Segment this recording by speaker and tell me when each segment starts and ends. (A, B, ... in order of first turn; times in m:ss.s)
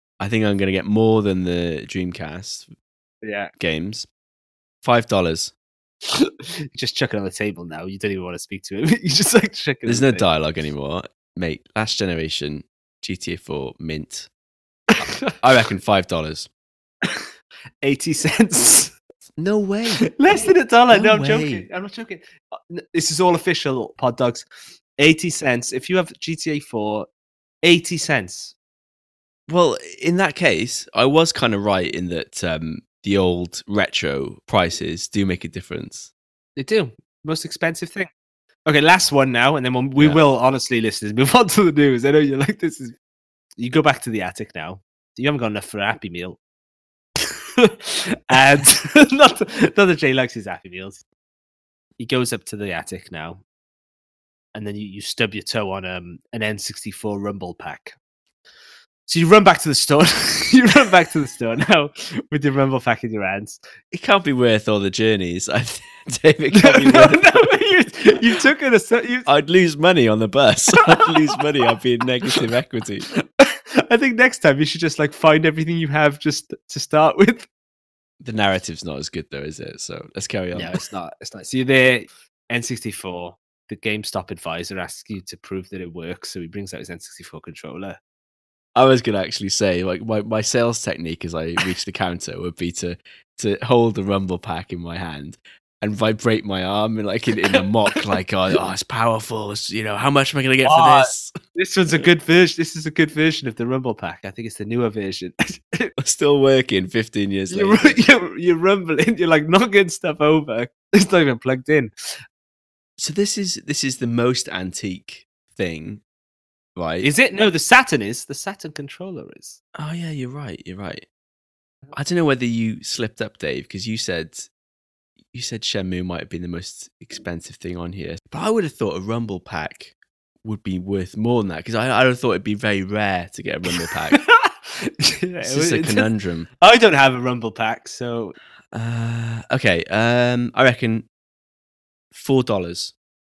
0:00.2-0:02.7 A
0:03.2-0:03.5 B
0:03.6-0:04.1 A
0:04.8-0:05.5 A
0:06.1-0:10.2 B
0:09.9-0:14.3 A
0:14.9-0:15.3 B
0:15.3-0:16.5 A
0:17.8-0:19.0 B
0:19.4-0:20.1 A
0:20.1-0:24.5 B
0:20.9-0:21.7 A
0:25.0-0:27.1 B
0:27.6-0:28.6 B
0:29.5-0:36.1 A
0:36.6-0:38.1 B
0:38.7-0:43.0 B
0:40.0-0:40.2 A
0:43.6-0:46.4 B
0:47.6-0:51.0 B
0:52.0-0:53.4 B
0:54.5-0:58.0 B
0:59.1-1:03.6 B
1:03.9-1:07.5 A
1:06.5-1:09.3 B
1:09.3-1:13.1 A
1:13.1-1:17.5 B
1:18.2-1:20.8 A
1:20.5-1:28.0 B
1:28.8-1:41.3 A
1:40.6-1:45.9 B
1:46.0-1:48.0 A
1:47.5-1:51.9 B
1:53.0-1:56.0 A
1:56.8-1:57.1 A
1:57.0-1:59.6 B
1:59.8-2:01.1 A
2:01.9-2:04.5 A
2:05.3-2:14.2 A
2:14.1-2:18.4 B
2:15.4-2:16.5 A
2:18.7-2:21.1 A
2:22.1-2:22.9 A